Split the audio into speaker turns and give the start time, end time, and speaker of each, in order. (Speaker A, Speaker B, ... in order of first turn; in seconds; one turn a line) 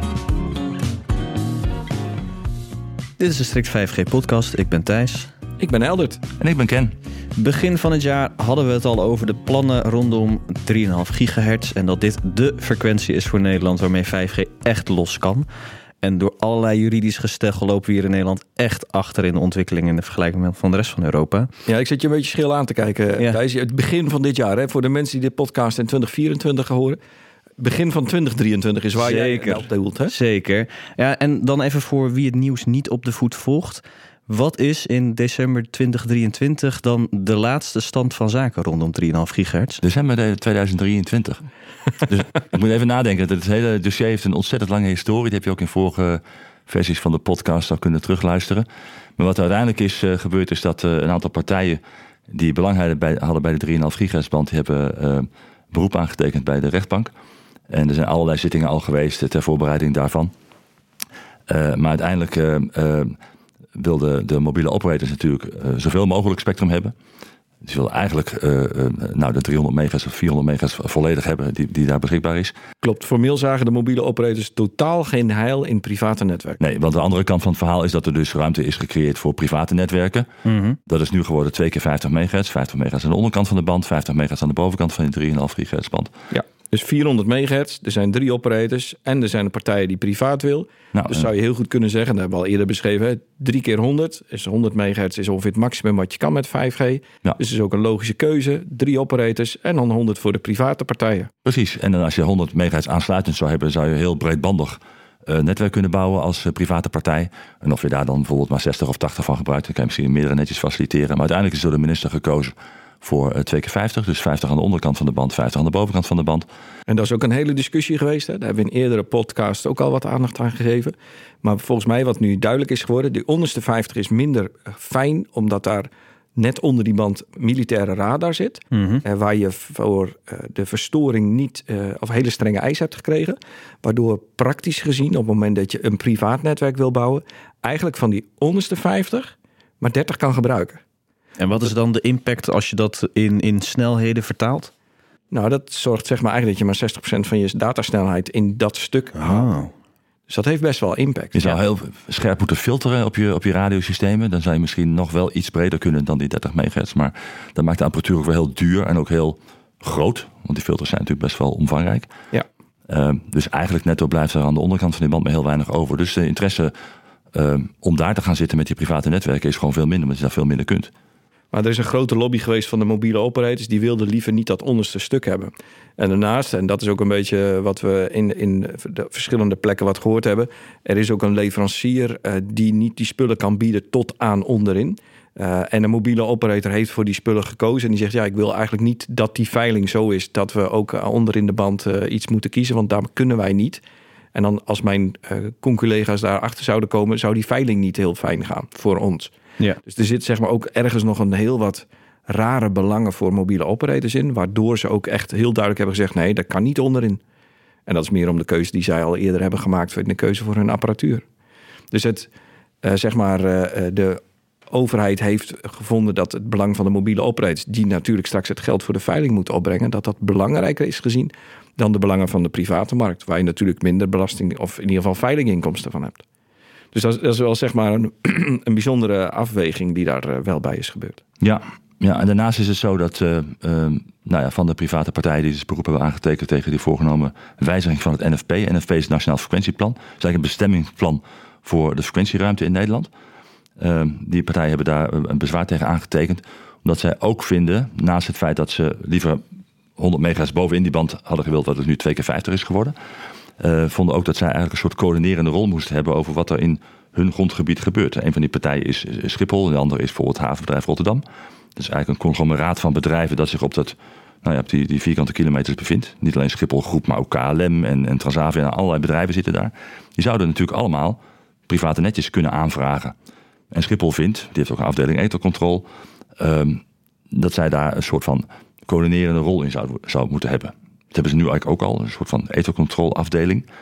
Speaker A: 3.2-5.3
Speaker B: 5.6-6.2
Speaker C: 6.4-7.0
Speaker A: 7.4-15.5
Speaker A: 16.0-21.5
Speaker B: 21.7-27.0
Speaker B: 27.6-30.1
Speaker A: 29.0-39.8
Speaker C: 39.8-41.4
Speaker C: 42.0-48.7
Speaker C: 49.2-57.1
Speaker C: 57.7-60.3
Speaker C: 61.5-63.2
Speaker C: 63.7-67.0
Speaker C: 67.6-72.5
Speaker B: 72.8-76.6
Speaker C: 76.6-80.3
Speaker A: 80.5-80.8
Speaker C: 80.9-86.1
Speaker B: 86.3-101.3
Speaker C: 90.9-91.3
Speaker C: 101.5-116.5
Speaker B: 116.9-140.8
Speaker A: 128.7-129.0
Speaker A: 141.4-144.7
Speaker B: 145.3-149.5
Speaker A: 149.2-149.7
Speaker B: 150.3-151.6
Speaker C: 151.3-162.1
Speaker C: 162.9-166.7
Speaker C: 167.3-170.9
Speaker B: 171.5-193.8
Speaker B: 194.3-199.3
Speaker B: 199.8-207.2
Speaker B: 207.9-211.2
Speaker B: 211.9-212.3
Speaker B: 212.8-226.2
Speaker B: 226.9-231.2
Speaker C: 231.4-243.1
Speaker C: 243.8-249.4
Speaker C: 250.0-252.9
Speaker C: 253.6-261.2
Speaker C: 261.8-273.1
Speaker C: 273.7-275.9
Speaker C: 276.4-283.7